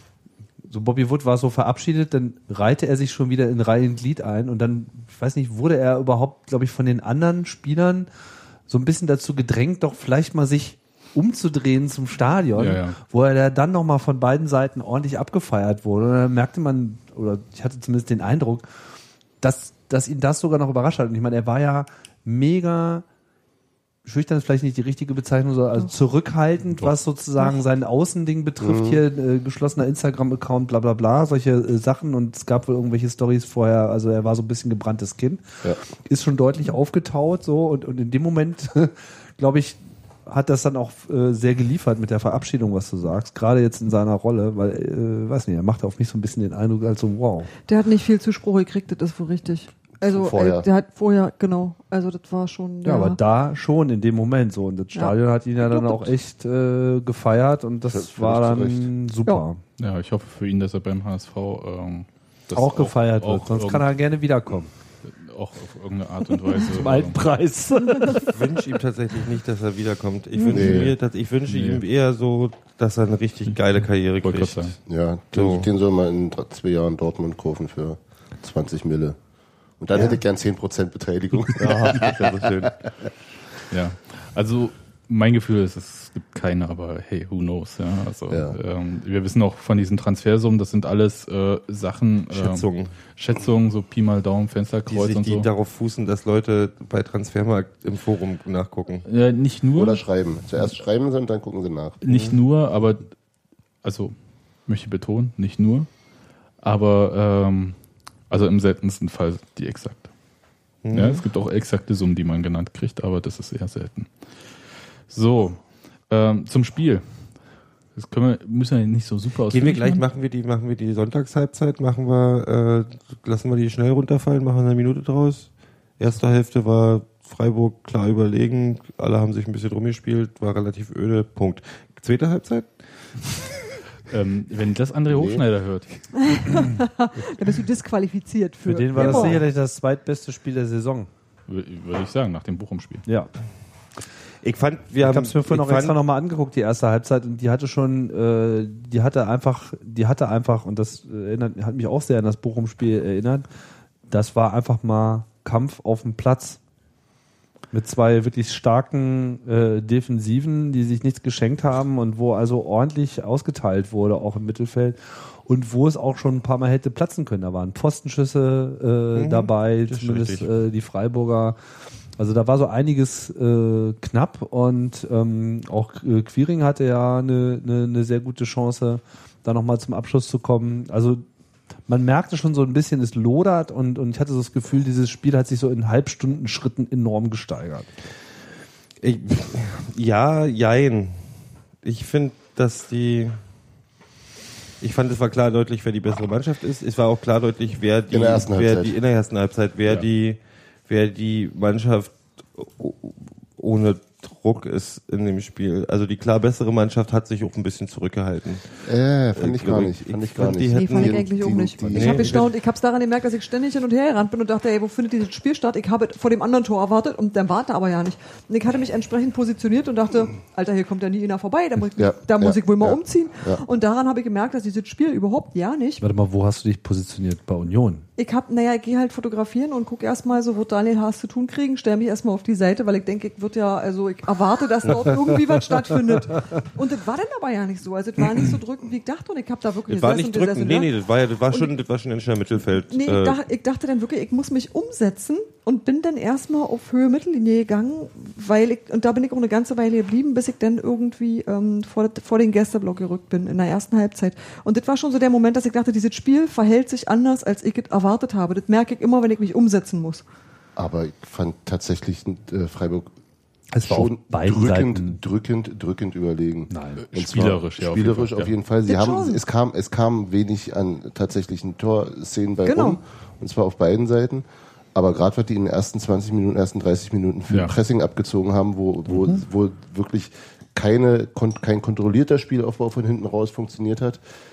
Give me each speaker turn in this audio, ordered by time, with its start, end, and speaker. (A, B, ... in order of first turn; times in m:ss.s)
0:00.7-0:08.1 A
0:08.7-0:18.7 A
0:12.5-0:13.0 B
0:19.4-0:23.0 A
0:24.0-0:47.5 A
0:28.6-0:29.0 C
0:47.7-0:53.2 D
0:50.0-0:50.7 C
0:52.8-0:59.6 A
0:54.9-0:56.2 D
0:57.9-0:58.9 C
0:59.8-1:03.9 B
1:02.5-1:04.7 A
1:05.0-1:07.3 B
1:06.5-1:08.4 A
1:08.3-1:14.8 E
1:10.5-1:10.9 C
1:10.5-1:11.0 B
1:11.5-1:11.8 B
1:14.2-1:14.8 B
1:14.9-1:19.2 C
1:15.3-1:15.7 E
1:19.8-1:22.7 C
1:21.6-1:22.8 E
1:23.7-1:35.5 B
1:28.3-1:28.6 C
1:32.3-1:33.0 E
1:34.9-1:39.0 E
1:39.1-1:40.0 B
1:39.8-1:42.0 C
1:42.0-1:43.1 B
1:42.1-1:42.4 E
1:43.8-1:44.2 B
1:44.7-1:45.9 B
1:46.6-1:47.8 B
1:48.3-1:50.1 B
1:50.8-1:51.2 E
1:50.9-1:54.1 B
1:55.1-1:57.0 B
1:58.0-2:00.0 B
1:59.5-2:12.7 E
2:14.1-2:15.9 B
2:15.1-2:15.4 C
2:16.2-2:19.4 D
2:18.6-2:21.1 A
2:19.0-2:19.3 B
2:21.5-2:23.0 B
2:24.4-2:26.0 E
2:25.0-2:33.5 A
2:34.1-2:36.6 A
2:37.7-2:51.6 A
2:49.1-2:50.5 E
2:52.2-3:01.2 A
3:01.9-3:07.9 A
3:09.0-3:13.4 E
3:14.8-3:28.8 E
3:18.1-3:19.0 C
3:28.8-3:32.4 C
3:29.4-3:31.2 E
3:30.7-3:46.1 D
3:31.9-3:32.5 E
3:42.0-3:43.6 C
3:46.0-3:48.1 A
3:48.2-4:00.9 D
3:59.9-4:03.4 E
4:02.9-4:20.2 D
4:20.8-4:23.1 C
4:23.7-4:25.2 A
4:23.8-4:44.2 C
4:26.7-4:27.0 A
4:27.0-4:28.5 B
4:28.9-4:29.4 D
4:32.7-4:33.0 D
4:37.5-4:37.8 B